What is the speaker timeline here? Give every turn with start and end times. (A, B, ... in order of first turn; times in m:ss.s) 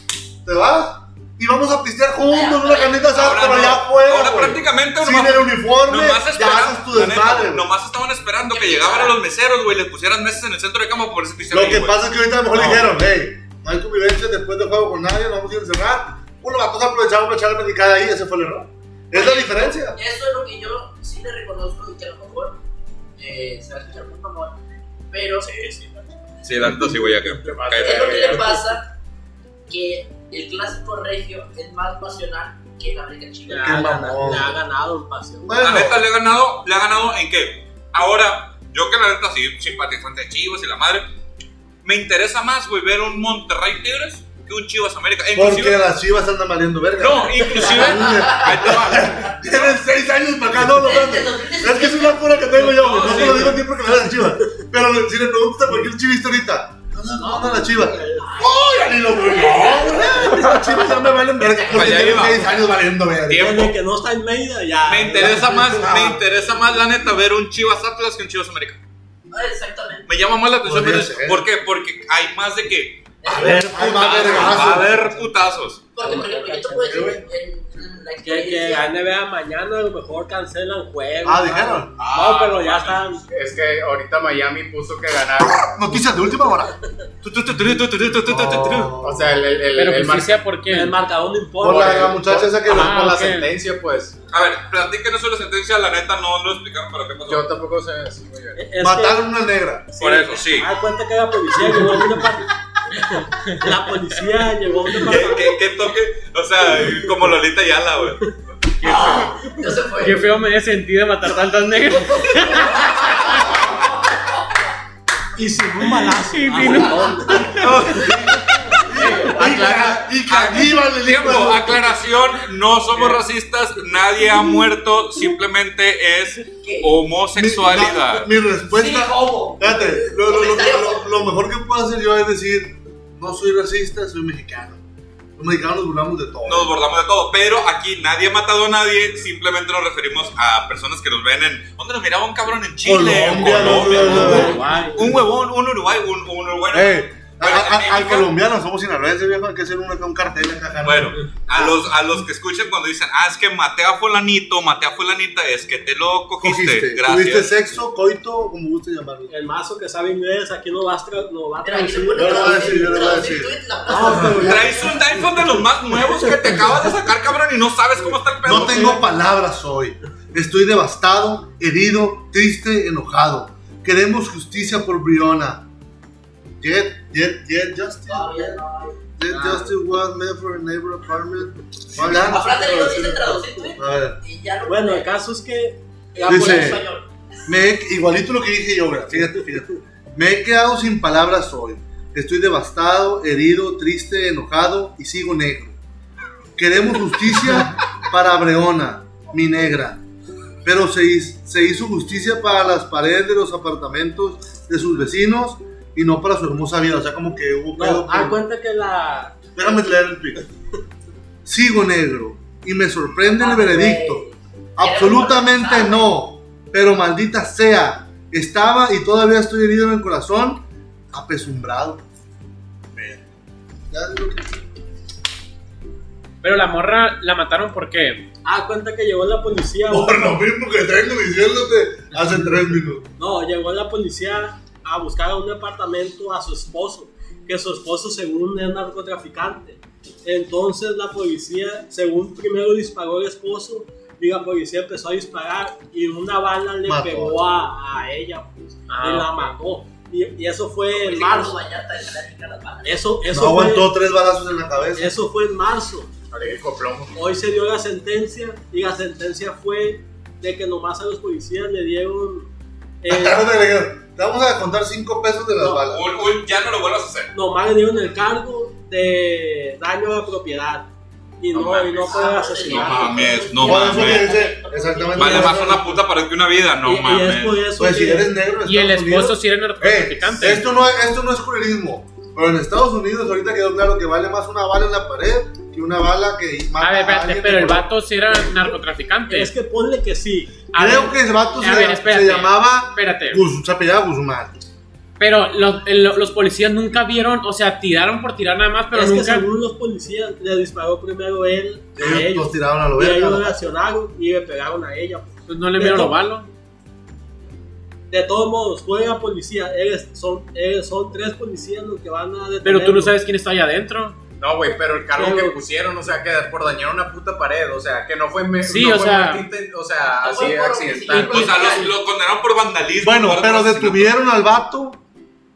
0:00.4-0:07.7 A
0:02.3-0:03.3 B
0:03.1-0:12.9 C
0:08.5-0:09.2 B
0:11.5-0:20.0 A
0:19.1-0:22.6 B
0:23.2-0:24.6 B
0:25.1-0:25.5 B
0:25.4-0:26.1 D
0:26.4-0:28.4 C
0:27.4-0:28.6 E
0:27.8-0:28.9 B
0:28.2-0:28.6 D
0:29.7-0:33.9 B
0:33.5-0:35.6 D
0:33.6-0:34.6 A
0:35.4-0:36.0 A
0:35.6-0:41.1 C
0:41.8-0:45.9 C
0:45.3-1:03.6 A
0:47.0-0:49.7 C
0:48.0-0:48.5 B
0:50.8-0:52.3 B
0:52.8-0:53.5 C
0:52.8-0:53.6 D
0:57.1-0:58.3 D
0:58.2-1:00.5 B
1:00.2-1:00.8 D
1:01.4-1:02.3 B
1:01.7-1:02.5 C
1:03.3-1:03.7 C
1:03.3-1:05.9 D
1:04.8-1:08.8 C
1:05.2-1:06.2 A
1:09.3-1:10.1 B
1:10.1-1:13.1 C
1:10.6-1:11.4 A
1:13.2-1:14.6 B
1:13.3-1:14.9 A
1:13.6-1:15.8 C
1:14.0-1:15.4 D
1:15.9-1:18.9 B
1:16.0-1:17.2 D
1:16.9-1:17.2 A
1:18.2-1:23.2 D
1:21.2-1:22.0 A
1:22.0-1:23.2 C
1:23.3-1:25.8 E
1:25.7-1:29.4 A
1:27.3-1:29.0 C
1:29.0-1:30.5 E
1:29.8-1:31.0 F
1:30.7-1:32.2 D
1:31.6-1:34.2 E
1:31.6-1:33.3 A
1:32.7-1:33.5 F
1:34.3-1:37.5 C
1:37.3-1:38.6 E
1:38.6-1:39.3 D
1:38.8-1:39.9 A
1:39.9-1:45.6 D
1:40.0-1:40.7 C
1:45.0-1:49.1 C
1:48.8-1:50.3 B
1:50.0-1:53.4 F
1:53.2-1:53.6 B
1:55.4-1:59.1 D
1:55.8-1:58.2 F
1:57.6-1:58.2 A
1:57.6-1:58.3 C
1:58.8-2:02.0 A
1:59.0-1:59.9 E
1:59.4-2:08.3 C
2:02.9-2:03.2 D
2:06.6-2:07.0 B
2:07.3-2:14.8 A
2:08.7-2:11.1 B
2:15.4-2:16.8 A
2:16.4-2:28.3 C
2:22.8-2:24.6 A
2:23.7-2:25.2 D
2:24.2-2:24.8 F
2:26.7-2:31.7 A
2:30.8-2:37.5 C
2:36.4-2:39.3 A
2:39.3-2:43.0 D
2:41.6-2:44.6 B
2:42.2-2:44.7 A
2:43.9-2:45.4 D
2:44.4-2:49.0 C
2:48.4-2:55.7 A
2:48.6-2:49.0 D
2:56.6-2:58.6 A
2:58.1-2:59.0 B
2:59.2-3:04.2 A
2:59.3-2:59.8 D
3:02.0-3:05.1 B
3:02.0-3:03.3 D
3:04.6-3:06.8 D
3:06.1-3:07.1 B
3:06.3-3:06.8 A
3:07.5-3:15.8 A
3:16.6-3:20.0 A
3:20.6-3:28.4 A
3:27.7-3:29.4 D
3:29.6-3:30.4 A
3:31.4-3:34.2 A
3:33.4-3:36.1 B
3:34.8-3:42.0 A
3:42.9-3:43.3 A
3:43.9-3:44.6 A
3:46.4-3:48.3 F
3:48.4-3:50.3 D
3:49.9-3:53.1 A
3:53.2-4:11.6 D
4:06.8-4:07.4 A
4:08.9-4:09.6 F
4:10.9-4:13.0 B
4:12.8-4:13.9 D
4:13.3-4:15.1 A
4:15.0-4:16.1 D
4:16.3-4:17.2 E
4:17.2-4:22.5 D
4:23.0-4:23.4 D
4:23.1-4:26.1 A
4:25.8-4:27.3 C
4:27.3-4:30.9 D
4:31.4-4:33.5 D
4:31.5-4:35.8 B
4:32.6-4:34.3 C
4:33.6-4:36.0 A
4:35.1-4:37.6 C
4:36.8-4:38.3 D
4:37.8-4:47.9 A
4:38.6-4:40.7 F
4:46.8-4:49.5 F
4:49.3-4:50.6 D
4:50.7-4:53.4 F
4:50.8-4:54.6 A
4:55.2-4:59.5 F
4:58.9-5:06.2 D
5:02.0-5:03.7 A
5:05.5-5:06.5 F
5:08.1-5:13.2 D
5:12.6-5:14.2 F
5:14.4-5:21.6 E
5:15.2-5:15.5 D
5:18.6-5:19.4 F
5:20.2-5:22.0 B
5:21.1-5:24.1 C
5:23.0-5:25.0 A